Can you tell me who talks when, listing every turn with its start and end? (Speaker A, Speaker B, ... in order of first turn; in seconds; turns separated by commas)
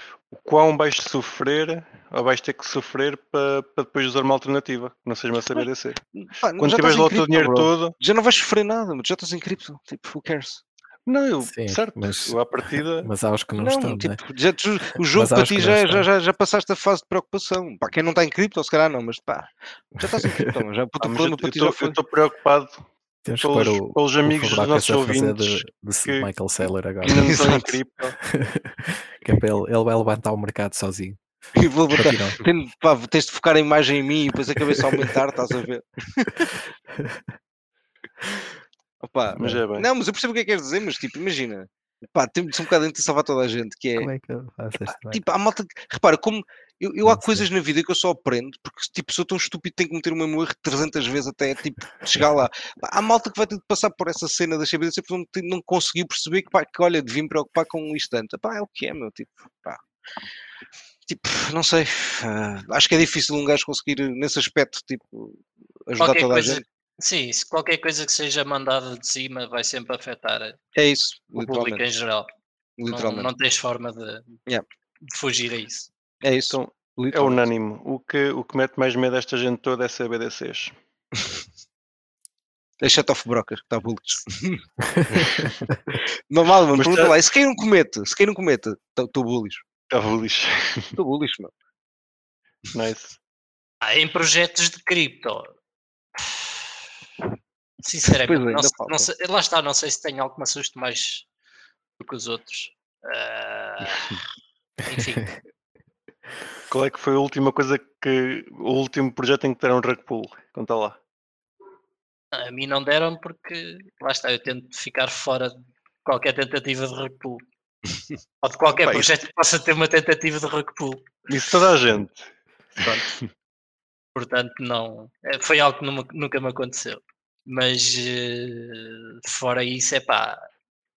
Speaker A: 0.3-6.0, Speaker B: 5.5-10.6, Speaker A: 6.6-7.9, Speaker A: 11.1-13.1, Speaker C: 11.4-14.2, Speaker B: 13.6-22.0, Speaker C: 15.0-16.1, Speaker C: 20.1-20.5, Speaker A: 21.0-22.8, Speaker C: 23.2-27.4, Speaker A: 23.4-26.3, Speaker A: 27.0-28.2, Speaker B: 27.0-27.8, Speaker C: 28.2-31.2, Speaker B: 31.6-36.3, Speaker C: 31.9-32.4, Speaker C: 34.7-35.1, Speaker C: 36.4-37.2, Speaker B: 39.0-44.1, Speaker A: 39.4-39.9, Speaker C: 44.0-45.2, Speaker B: 45.0-59.8, Speaker C: 47.1-47.5, Speaker B: 61.1-66.6, Speaker D: 66.0-70.6, Speaker B: 70.8-71.8, Speaker D: 71.3-72.3, Speaker B: 72.8-73.3, Speaker D: 72.9-74.4, Speaker D: 75.0-75.9, Speaker B: 76.2-77.4, Speaker A: 76.5-80.7, Speaker B: 82.8-85.4, Speaker C: 84.9-85.5, Speaker B: 86.3-89.6, Speaker A: 86.7-87.1, Speaker A: 89.9-91.0, Speaker B: 91.0-91.5, Speaker A: 92.7-93.2, Speaker D: 93.8-95.5, Speaker D: 96.2-96.5, Speaker D: 97.8-101.3, Speaker B: 98.1-99.1, Speaker D: 102.0-104.2, Speaker D: 104.9-105.3, Speaker A: 106.7-111.0, Speaker D: 112.3-117.4, Speaker D: 118.4-121.1, Speaker A: 121.3-122.3, Speaker D: 122.8-123.1, Speaker D: 124.2-130.4